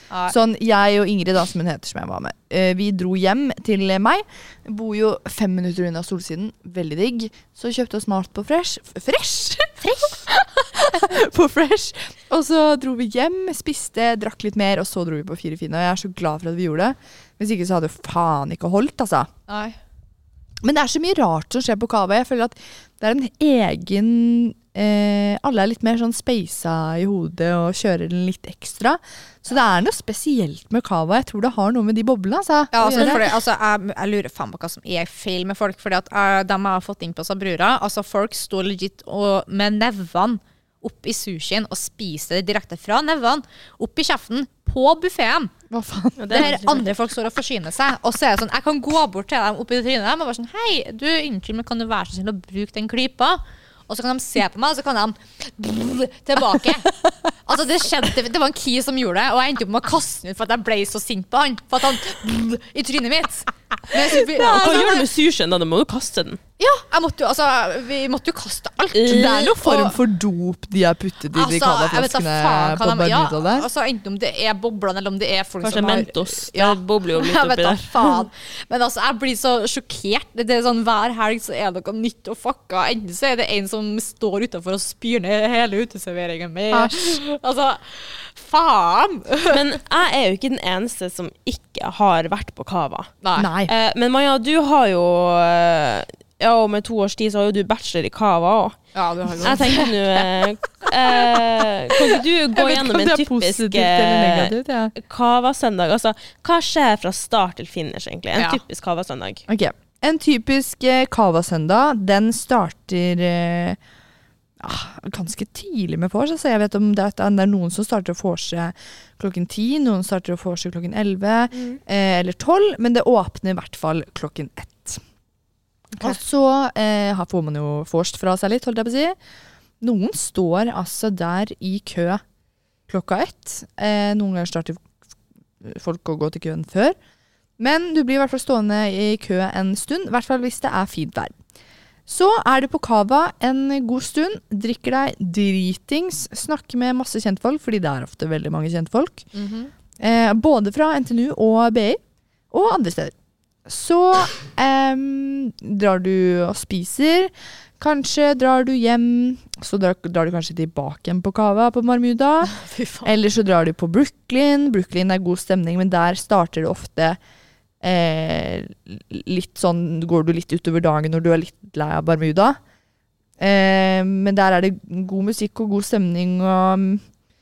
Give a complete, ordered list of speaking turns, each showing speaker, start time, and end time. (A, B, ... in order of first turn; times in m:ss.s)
0:00.1-0:00.4 A
0:00.3-0:19.3 B
0:09.8-0:10.2 A
0:19.5-0:19.8 A
0:20.6-0:33.2 B
0:32.7-0:45.5 A
0:32.9-0:33.2 C
0:45.7-0:46.6 B
0:46.2-0:46.9 C
0:46.3-1:05.1 A
1:04.2-1:06.4 C
1:06.6-1:10.0 A
1:08.9-1:09.5 C
1:09.1-1:13.7 B
1:11.3-1:29.6 A
1:15.6-1:18.2 C
1:26.7-1:27.2 B
1:29.5-1:33.1 C
1:33.2-1:33.5 A
1:33.4-1:33.7 B
1:33.7-1:38.8 C
1:38.9-1:41.7 A
1:39.4-1:49.4 C
1:42.5-1:45.0 B
1:48.4-1:48.6 A
1:49.5-1:53.8 B
1:54.6-2:05.0 B
2:06.0-2:09.2 B
2:09.8-2:12.2 B
2:12.9-2:14.9 B
2:15.6-2:17.0 B
2:17.6-2:21.4 B
2:22.1-2:29.3 B
2:29.3-2:29.7 A
2:30.0-2:32.0 B
2:32.5-2:33.1 B
2:33.7-2:47.2 B
2:42.5-2:43.1 A
2:47.8-2:52.6 B
2:53.4-2:57.0 B